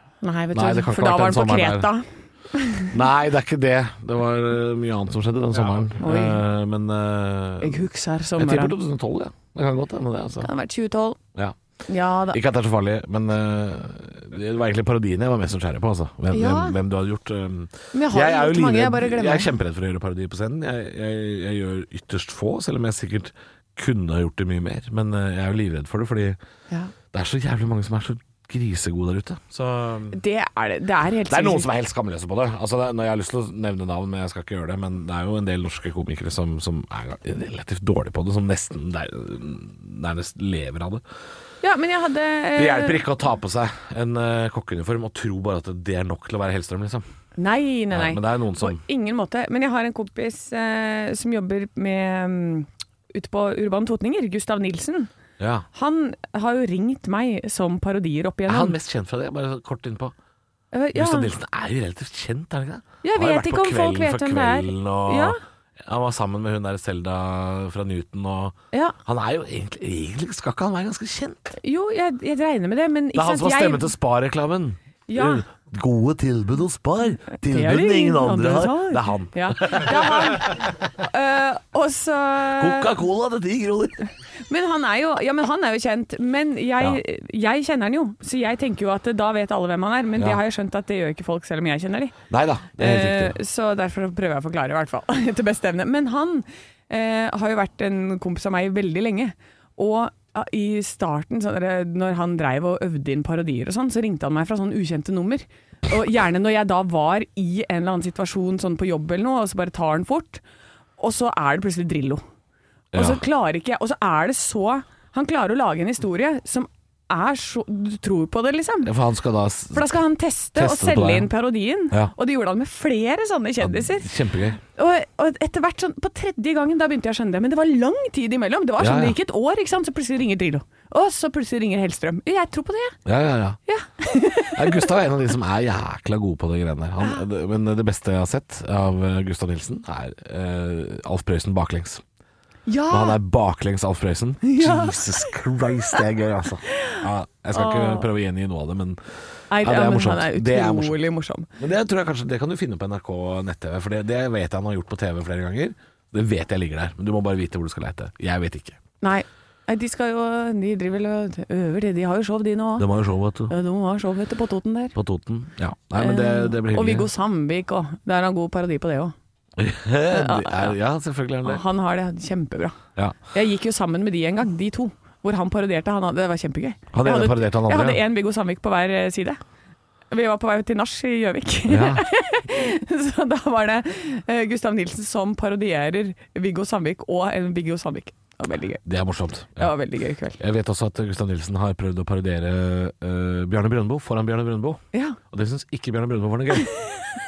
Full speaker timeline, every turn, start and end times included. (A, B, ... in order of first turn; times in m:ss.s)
0:00.2-0:02.9 A
0:00.5-0:01.9 B
0:02.9-0:10.5 B
0:06.0-0:06.4 A
0:07.6-0:08.7 A
0:10.4-0:11.2 A
0:11.9-0:12.4 A
0:12.3-0:26.4 B
0:16.3-0:16.8 A
0:17.9-0:19.5 A
0:27.1-0:30.2 B
0:30.1-0:31.7 A
0:31.3-0:41.0 B
0:41.6-0:43.0 A
0:42.6-0:47.0 B
0:47.4-0:55.1 A
0:47.9-0:48.8 B
0:55.4-0:55.7 B
0:55.7-0:58.8 A
0:58.5-1:00.1 B
1:00.7-1:01.3 A
1:01.0-1:11.6 B
1:03.0-1:05.4 A
1:11.6-1:13.9 A
1:13.1-1:20.5 B
1:15.1-1:15.4 A
1:17.3-1:23.0 A
1:22.6-1:24.1 B
1:24.5-1:32.2 A
1:32.3-1:33.4 B
1:32.8-1:50.4 A
1:51.0-1:52.2 A
1:52.9-1:53.2 B
1:52.9-1:58.9 A
1:58.8-2:00.0 B
1:59.7-2:04.1 A
2:00.6-2:01.3 B
2:03.6-2:04.6 B
2:04.7-2:13.0 A
2:08.8-2:09.2 B
2:13.1-2:13.6 B
2:13.7-2:14.9 A
2:14.6-2:22.0 B
2:22.7-2:23.2 A
2:22.9-2:29.0 B
2:24.4-2:25.4 A
2:26.8-2:28.1 A
2:29.5-2:31.5 A
2:29.6-2:31.0 B
2:31.6-2:38.8 B
2:39.0-2:42.9 A
2:42.8-2:43.5 B
2:43.5-2:45.0 A
2:45.0-2:47.1 B
2:46.0-2:49.1 A
2:49.6-2:51.6 B
2:50.1-2:50.8 A
2:51.4-2:52.8 A
2:53.3-2:59.4 A
2:56.9-2:58.0 B
3:00.1-3:08.8 A
3:01.7-3:02.0 B
3:08.8-3:09.7 B
3:09.6-3:10.4 A
3:10.4-3:16.8 B
3:14.9-3:15.2 A